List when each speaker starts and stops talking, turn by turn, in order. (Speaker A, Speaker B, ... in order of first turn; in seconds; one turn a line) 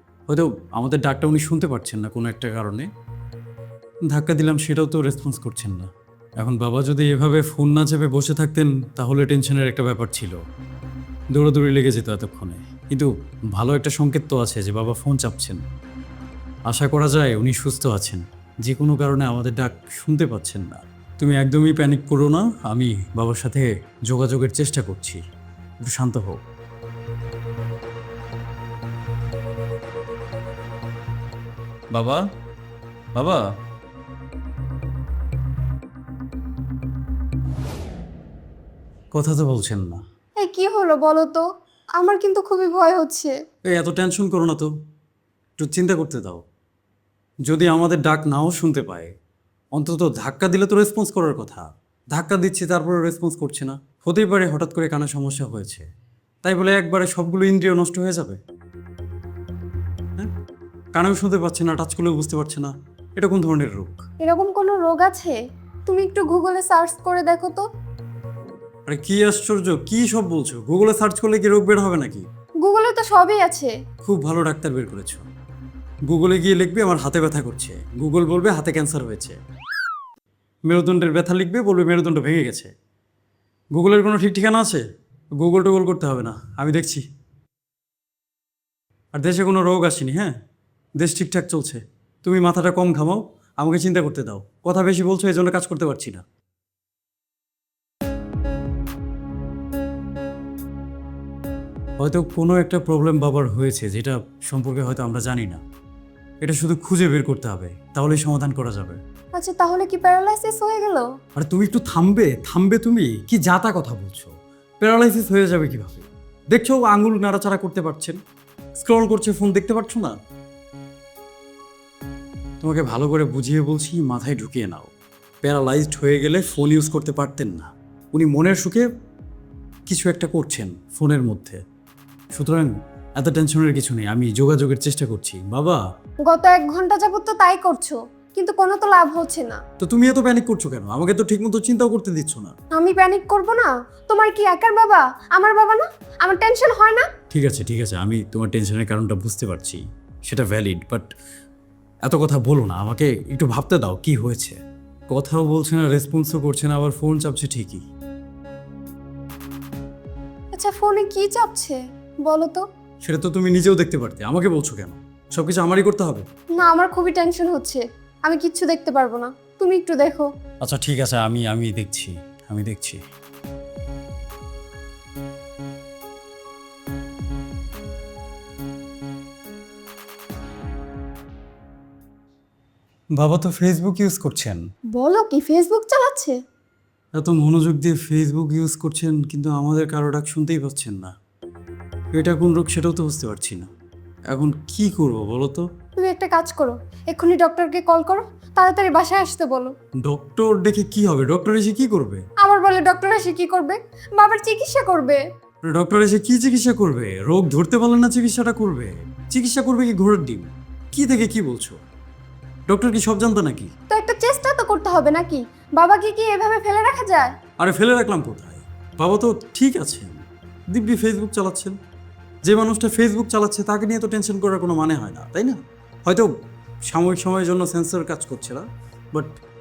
Speaker A: 0.3-2.9
Speaker A: 4.1-10.4
Speaker A: 11.3-15.6
Speaker A: 16.7-25.2
Speaker A: 25.8-26.4
Speaker A: 31.9-32.2
Speaker A: 33.1-33.4
Speaker A: 39.1-40.0
Speaker B: 40.4-41.4
Speaker B: 42.0-43.4
Speaker A: 43.7-44.7
Speaker A: 45.6-46.4
Speaker A: 47.5-49.1
Speaker A: 49.8-55.9
Speaker A: 56.4-58.4
Speaker A: 61.0-64.0
Speaker B: 64.2-67.7
Speaker A: 68.9-72.3
Speaker B: 72.6-73.8
Speaker A: 74.0-75.3
Speaker A: 76.1-79.4
Speaker A: 80.7-82.7
Speaker A: 83.8-84.8
Speaker A: 85.4-87.1
Speaker A: 89.1-90.4
Speaker A: 91.0-96.2
Speaker A: 102.0-105.6
Speaker A: 106.4-109.0
Speaker B: 109.3-111.1
Speaker A: 111.4-118.2
Speaker A: 118.8-120.2
Speaker A: 122.6-124.9
Speaker A: 125.4-128.9
Speaker A: 129.9-131.6
Speaker A: 132.3-135.8
Speaker B: 136.2-139.6
Speaker A: 139.8-142.5
Speaker B: 142.7-147.1
Speaker A: 147.3-151.1
Speaker A: 152.1-157.8
Speaker B: 160.5-162.6
Speaker A: 163.0-166.3
Speaker B: 166.6-170.3
Speaker A: 170.6-173.0
Speaker A: 183.2-184.6
Speaker B: 185.0-186.4
Speaker A: 187.2-191.1
Speaker A: 192.2-193.7
Speaker A: 194.3-195.7
Speaker B: 196.0-199.7
Speaker A: 200.0-202.2
Speaker B: 202.4-205.2
Speaker A: 205.7-211.8
Speaker A: 212.7-213.7
Speaker B: 213.9-217.3
Speaker A: 217.6-221.8
Speaker A: 222.4-226.3
Speaker A: 226.9-229.4